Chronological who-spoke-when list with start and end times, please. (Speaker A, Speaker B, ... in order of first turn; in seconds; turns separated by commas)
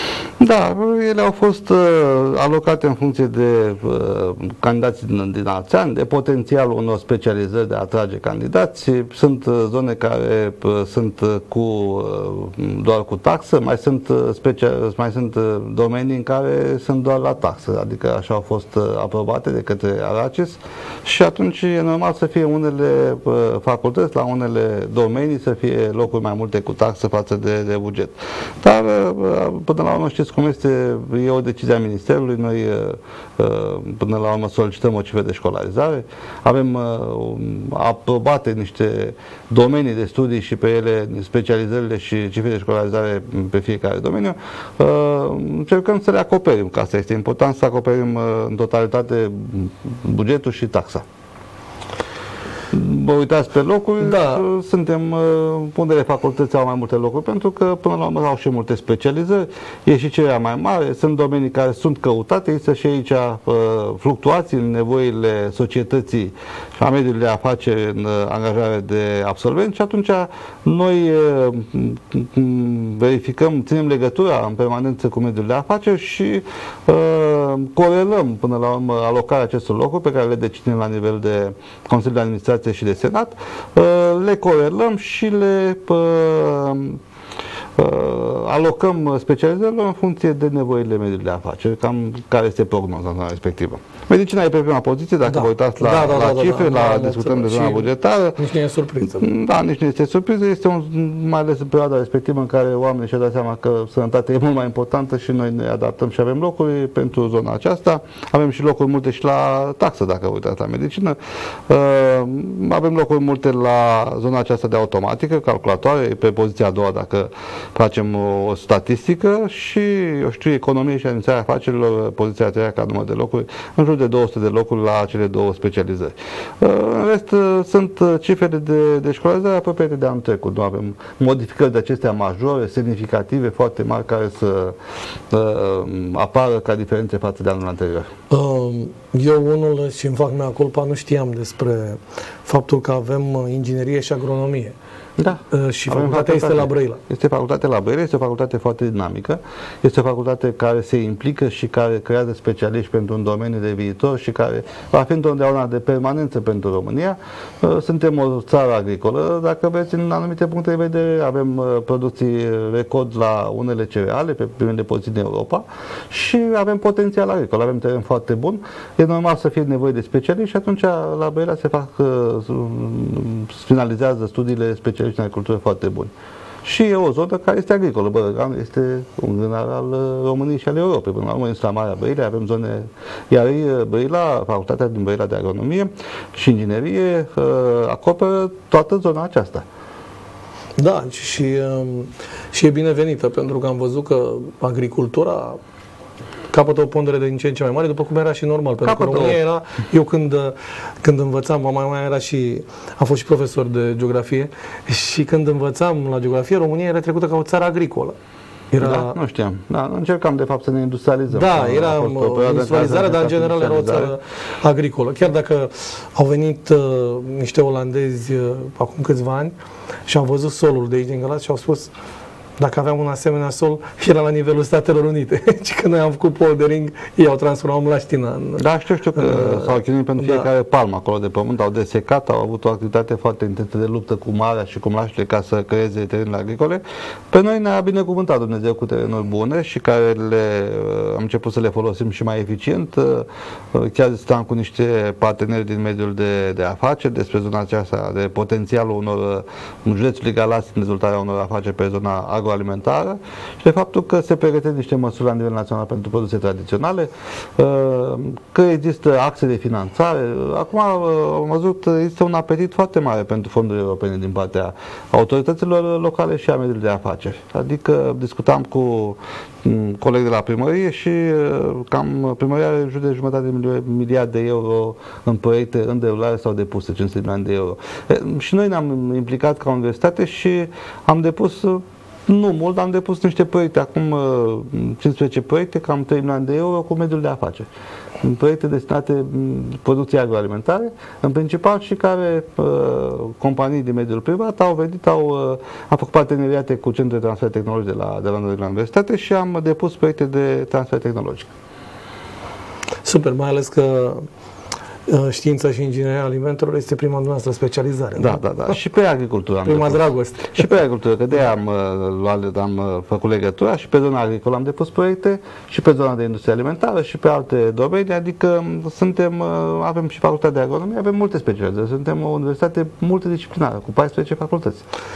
Speaker A: 0.4-51.0, Speaker A: 52.7-87.0, Speaker B: 54.0-54.5, Speaker A: 87.8-98.4, Speaker B: 95.3-99.3, Speaker A: 99.1-111.2, Speaker A: 111.7-134.8, Speaker A: 135.3-138.1, Speaker B: 138.3-144.8, Speaker A: 145.2-176.1, Speaker B: 145.5-147.0, Speaker A: 176.6-189.7, Speaker B: 190.8-195.6, Speaker B: 196.5-208.2, Speaker A: 198.8-199.4, Speaker B: 208.7-209.2, Speaker A: 208.8-214.1, Speaker B: 211.3-219.6, Speaker B: 220.1-221.9, Speaker B: 222.6-228.6, Speaker A: 228.6-287.7, Speaker B: 229.2-230.5, Speaker A: 288.2-301.5, Speaker B: 303.0-304.3, Speaker B: 305.1-308.4, Speaker A: 308.2-324.8, Speaker B: 309.6-310.8